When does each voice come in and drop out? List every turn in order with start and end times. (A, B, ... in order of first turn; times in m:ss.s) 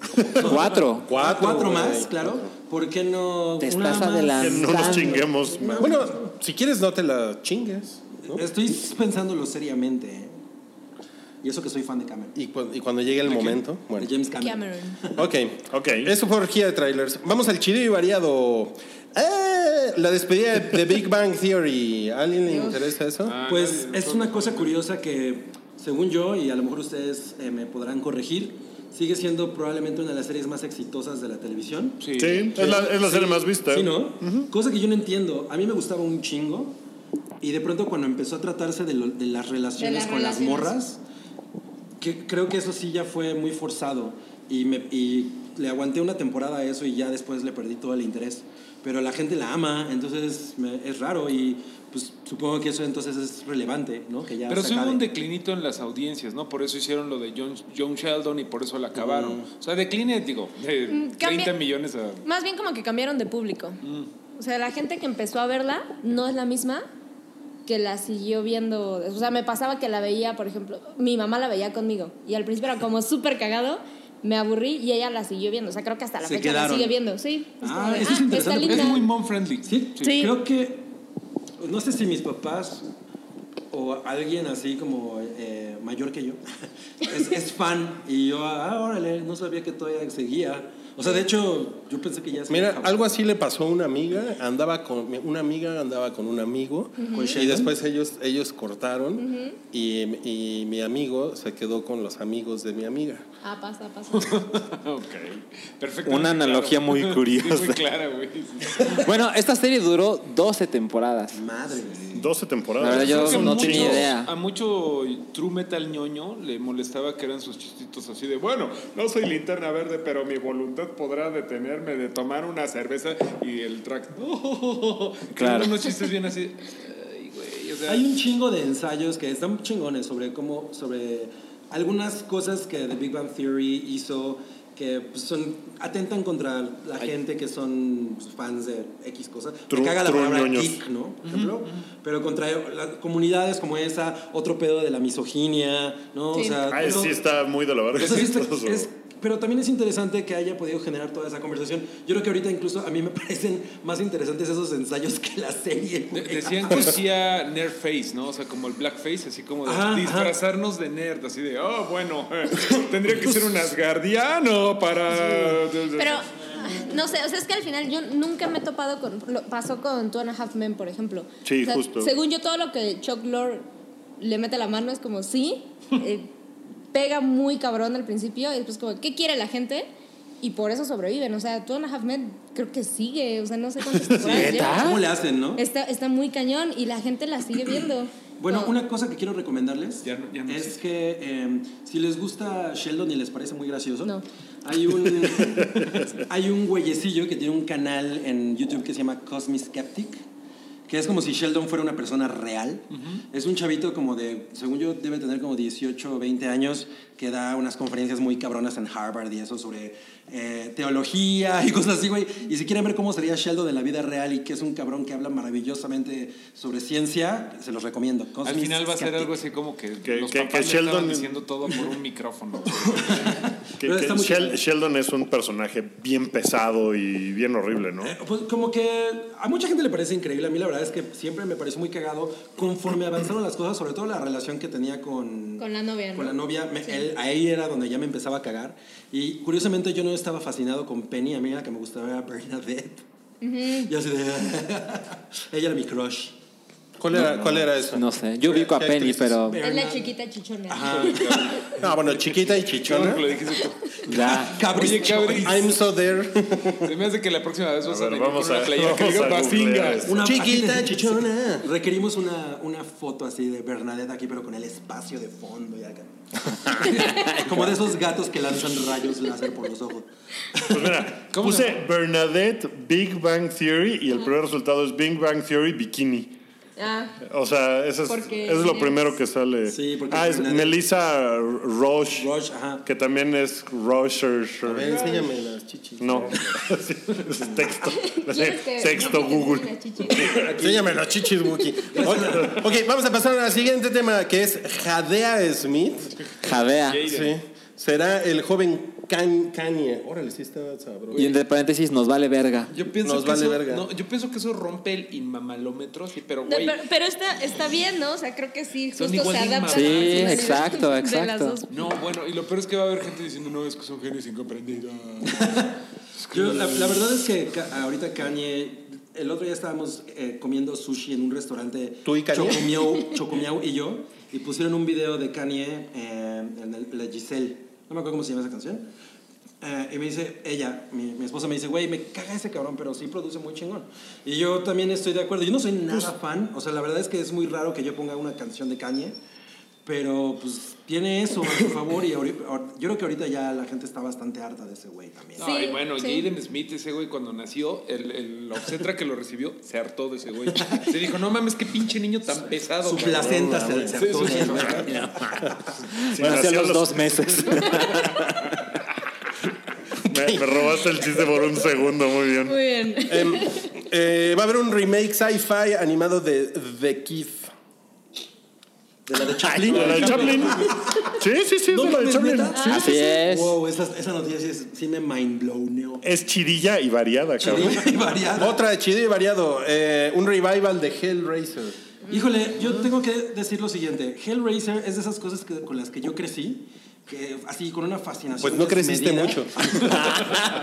0:00.3-0:06.3 A
0:00.4-0:01.1 B
0:01.0-0:02.5 C
0:03.6-0:05.2 B
0:04.4-0:05.9 D
0:05.8-0:08.4 C
0:08.3-0:10.4 A
0:11.4-0:12.3 A
0:12.3-0:14.1 C
0:14.0-0:15.3 A
0:14.4-0:15.0 E
0:15.2-0:23.4 C
0:15.7-0:16.1 D
0:22.5-0:22.8 E
0:23.2-0:24.8 F
0:23.5-0:36.8 A
0:32.0-0:32.5 F
0:32.2-0:34.5 D
0:37.4-0:41.0 A
0:39.8-0:40.7 E
0:42.0-0:55.0 A
0:54.5-1:02.2 F
1:00.9-1:01.5 E
1:02.2-1:03.8 E
1:03.8-1:04.1 F
1:04.4-1:06.8 E
1:07.6-1:19.0 E
1:16.2-1:17.0 A
1:17.6-1:19.1 A
1:18.6-1:20.1 F
1:19.6-1:20.9 A
1:20.0-1:20.3 E
1:21.6-1:22.9 A
1:23.7-1:26.4 A
1:27.0-1:33.1 A
1:32.5-1:43.2 C
1:37.0-1:37.4 E
1:37.1-1:37.7 A
1:39.2-1:39.6 E
1:43.4-1:44.4 E
1:44.1-1:49.0 F
1:46.0-1:47.8 B
1:49.0-1:51.4 B
1:51.3-1:52.3 A
1:52.1-1:54.1 D
1:52.8-1:54.3 B
1:52.8-2:08.1 F
2:05.3-2:05.7 B
2:07.9-2:27.2 A
2:19.7-2:20.8 D
2:21.2-2:21.8 F
2:26.3-2:26.6 E
2:26.7-2:28.9 D
2:27.9-2:37.0 A
2:36.1-2:46.3 F
2:39.6-2:40.4 A
2:45.9-2:53.7 E
2:51.4-2:52.1 D
2:54.2-2:56.3 E
2:56.9-2:59.9 E
3:00.4-3:05.0 E
3:04.0-3:04.3 D
3:04.2-3:05.6 A
3:04.3-3:05.0 B
3:05.6-3:08.7 E
3:08.4-3:20.2 A
3:10.0-3:10.8 F
3:20.9-3:39.3 A
3:38.4-3:43.4 F
3:40.0-3:41.3 D
3:42.8-3:44.6 A
3:43.8-3:48.2 D
3:48.0-4:03.0 A
3:55.6-3:57.1 E
4:03.4-4:03.9 E
4:03.7-4:06.3 A
4:07.0-4:09.6 C
4:07.1-4:09.6 B
4:09.5-4:10.1 A
4:09.6-4:11.4 E
4:10.7-4:11.7 A
4:10.8-4:15.8 F
4:11.8-4:13.2 C
4:14.1-4:14.6 B
4:14.2-4:15.7 A
4:15.3-4:16.9 C
4:16.8-4:20.2 F
4:17.8-4:20.2 D
4:20.0-4:31.1 A
4:20.2-4:21.7 C
4:26.9-4:27.2 E
4:30.7-4:36.3 D
4:31.3-4:31.8 F
4:36.8-4:37.2 E
4:37.2-4:42.3 D
4:38.1-4:39.1 E
4:39.7-4:40.8 A
4:42.1-4:42.8 A
4:42.8-4:45.0 D
4:44.6-4:46.6 C
4:46.0-4:50.3 D
4:47.8-4:50.4 E
4:50.2-4:51.0 A
4:50.6-4:56.2 C
4:51.9-4:52.6 A
4:56.4-4:57.0 B
4:56.9-4:57.4 F
4:57.0-5:01.4 C
5:01.1-5:02.7 B
5:02.7-5:06.8 F
5:03.0-5:03.8 C
5:06.4-5:11.9 E
5:08.9-5:10.8 F
5:09.7-5:11.6 B
5:11.7-5:15.6 F
5:15.2-5:15.8 A
5:16.3-5:17.0 F
5:16.3-5:28.8 A
5:22.0-5:22.8 C
5:29.6-5:39.2 A
5:39.8-5:45.5 A
5:45.4-5:54.9 F
5:45.4-5:46.3 E
5:50.5-5:50.9 A
5:52.8-5:55.1 A
5:53.2-5:53.9 C
5:54.8-5:55.1 B
5:56.0-5:58.4 B
5:56.1-5:57.6 D
6:00.1-6:02.6 D
6:00.1-6:00.6 C
6:02.4-6:03.7 E
6:03.1-6:07.5 C
6:09.0-6:11.2 A
6:09.5-6:12.6 D
6:09.7-6:10.3 C
6:11.7-6:16.0 A
6:12.5-6:13.2 E
6:12.7-6:13.6 B
6:16.0-6:17.8 D
6:17.4-6:18.6 A
6:18.3-6:21.8 C
6:22.1-6:30.2 A
6:28.4-6:30.0 C